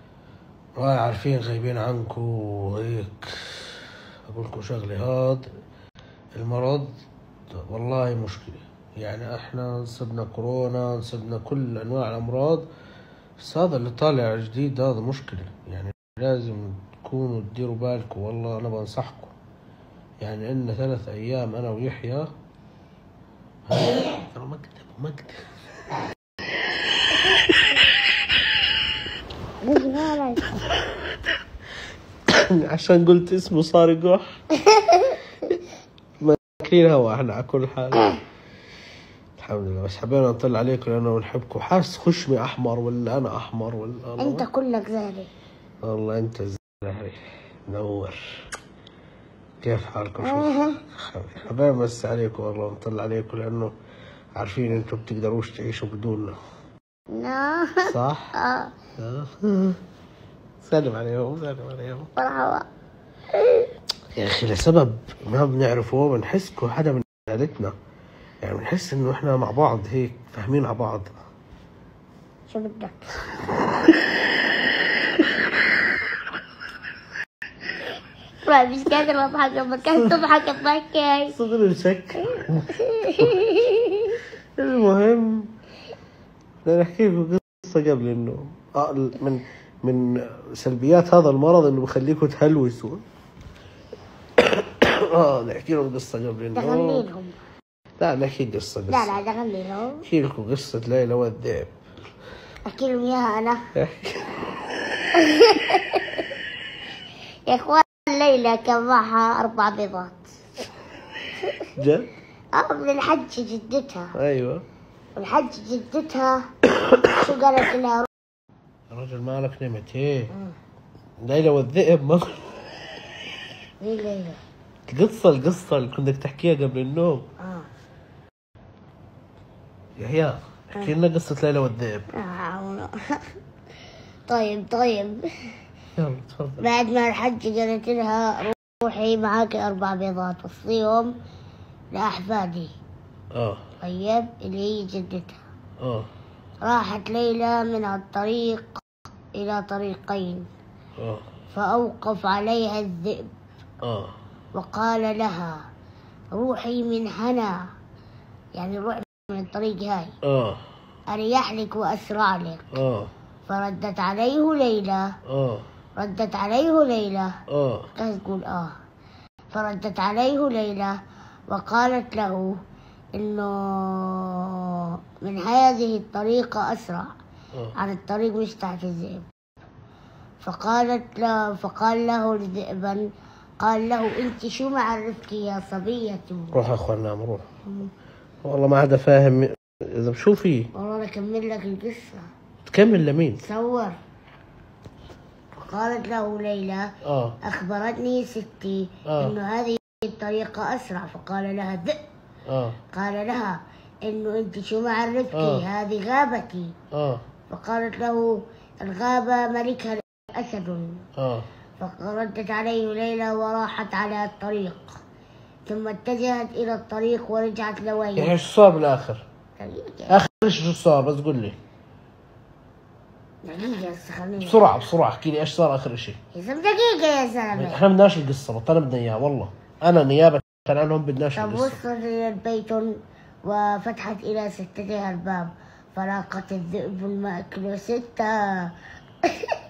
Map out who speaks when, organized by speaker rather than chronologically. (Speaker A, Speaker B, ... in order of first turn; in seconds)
Speaker A: 0.8-5.5, 6.3-6.9, 7.5-12.7, 13.4-19.3, 20.2-22.3, 23.7-25.4, 32.3-34.2, 36.2-38.2, 39.4-44.5, 45.8-48.2, 49.6-53.7, 54.4-56.4, 57.8-58.3, 59.0-59.8, 60.6-62.1, 64.1-67.7, 68.4-71.1, 81.3-83.4, 84.6-85.5, 86.6-93.0, 94.4-97.0, 98.0-99.2, 100.0-101.7, 103.8-104.4, 111.8-112.1, 114.1-114.6, 116.8-117.1, 118.9-120.3, 121.2-122.4, 124.9-127.3, 130.0-132.1, 136.0-136.7, 143.3-143.6, 145.8-146.1, 151.0-151.2, 153.8-154.1, 160.2-160.6, 162.7-163.1, 165.3-165.6, 167.5-167.9, 186.5-187.5, 188.4-190.7, 192.7-193.4, 197.1-197.4, 199.1-199.3, 202.5-202.8, 205.3-205.6, 206.9-207.2, 211.2-211.5, 218.2-219.2, 220.1-221.6, 224.4-226.2, 227.5-231.8
Speaker B: 29.6-30.6, 34.5-35.2, 44.2-45.3, 50.2-50.8, 57.1-58.7, 62.2-62.6, 63.4-63.7, 72.5-73.1, 78.4-81.3, 82.8-84.2, 96.5-97.4, 98.9-100.0, 102.7-103.6, 105.1-106.4, 107.5-110.3, 112.5-114.1, 115.2-116.4, 117.1-118.1, 123.8-124.4, 127.4-127.7, 132.1-133.3, 134.3-135.6, 136.6-141.1, 141.9-142.7, 143.8-145.4, 146.6-148.8, 149.3-150.5, 151.5-153.3, 154.5-155.6, 156.3-157.6, 158.6-160.2, 161.1-162.8, 163.5-165.1, 166.0-167.3, 168.0-168.7, 169.5-170.9, 171.5-172.5, 173.1-177.1, 177.8-179.3, 180.4-183.1, 183.6-186.6, 190.8-192.2, 193.4-194.0, 195.6-196.9, 197.4-202.0, 202.9-206.7, 207.5-211.0, 211.8-215.0, 215.7-218.4, 219.6-220.2, 223.4-224.7, 226.3-227.8, 231.3-232.9, 233.4-238.7, 239.2-239.6